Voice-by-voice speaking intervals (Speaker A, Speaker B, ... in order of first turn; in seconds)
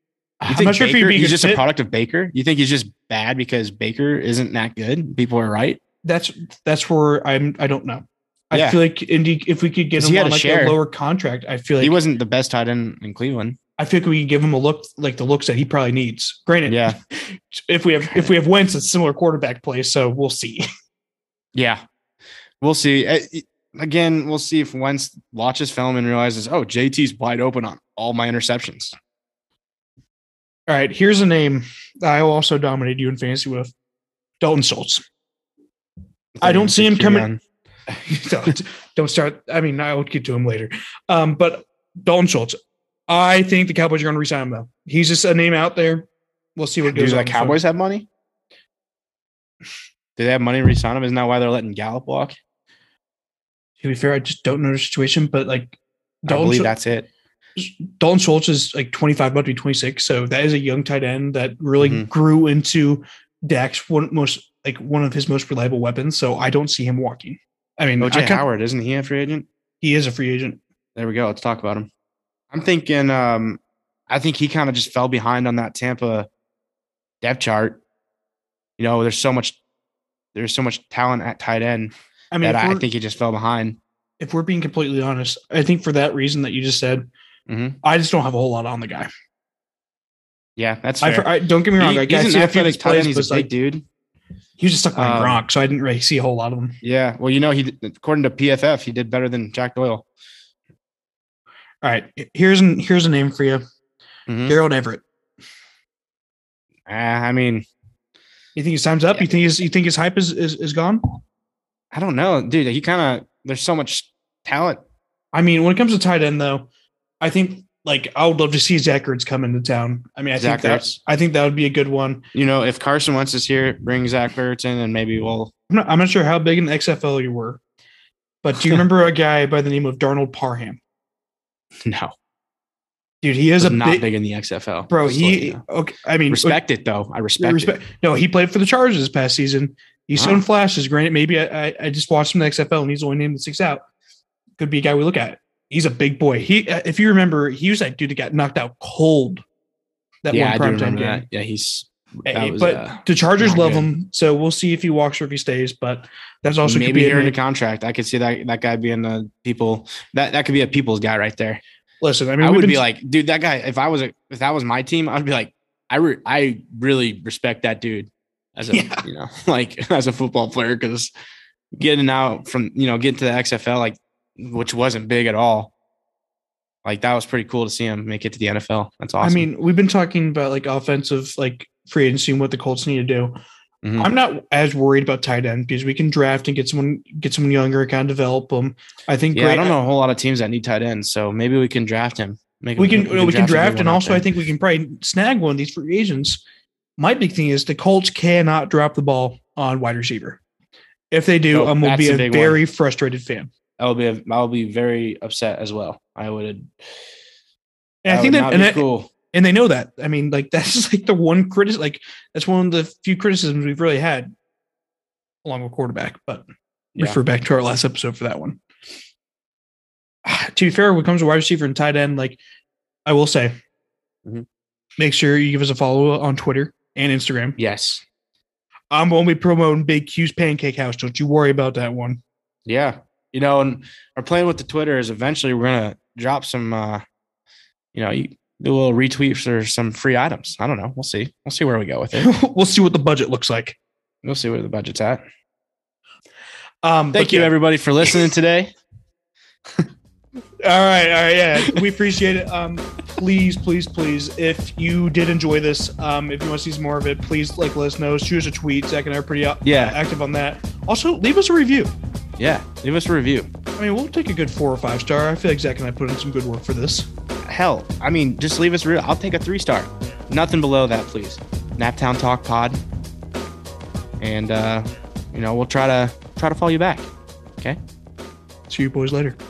Speaker A: 0.4-1.6, 6.0-12.0, 13.8-20.7, 30.7-33.7, 34.4-35.0, 36.4-37.3, 37.9-42.6, 43.1-47.6, 53.8-56.7, 57.6-68.4, 69.8-70.6, 82.3-82.8, 84.2-87.1, 87.8-89.1, 91.0-93.5, 94.6-96.8, 101.8-103.6, 104.5-105.0, 108.5-111.2, 115.3-116.7, 117.2-122.2, 125.7-127.6, 128.4-130.8, 133.2-134.1, 134.9-136.6, 137.4-143.8, 144.6-149.4, 150.2-151.2, 152.3-157.3, 162.0-162.8, 168.7-169.0, 179.2-183.4, 184.0-189.8, 192.8-196.4, 197.0-200.4, 201.1-203.5, 208.1-214.3, 215.4-218.6, 220.2-222.4, 223.1-223.5, 225.0-227.6, 228.9-232.2, 242.2-243.8, 246.8-247.5, 250.6-261.9, 263.8-267.1, 278.7-279.4
Speaker B: 0.5-5.8, 8.5-8.8, 10.0-10.8, 11.8-13.6, 16.7-17.0, 21.6-21.8, 22.6-29.0, 36.4-37.4, 46.9-48.1, 50.2-52.3, 56.3-57.1, 61.8-62.1, 68.0-69.5, 71.0-71.9, 72.5-73.6, 74.1-76.3, 77.2-77.8, 78.8-79.6, 80.3-83.8, 87.5-87.8, 90.6-93.9, 94.9-95.4, 96.8-100.1, 104.3-104.6, 106.9-107.7, 111.9-114.8, 120.4-121.0, 122.3-125.5, 131.8-132.1, 133.6-135.6, 136.3-137.8, 140.2-140.4, 150.3-153.9, 156.6-161.6, 162.4-171.1, 171.7-175.7, 176.8-179.5, 183.8-184.1, 189.3-194.3, 201.5-202.6, 203.8-206.7, 208.1-209.1, 227.6-228.1, 232.7-237.0, 237.9-242.3, 244.2-245.2, 247.1-248.7, 259.6-260.0, 262.4-263.5, 267.4-272.8, 274.2-277.1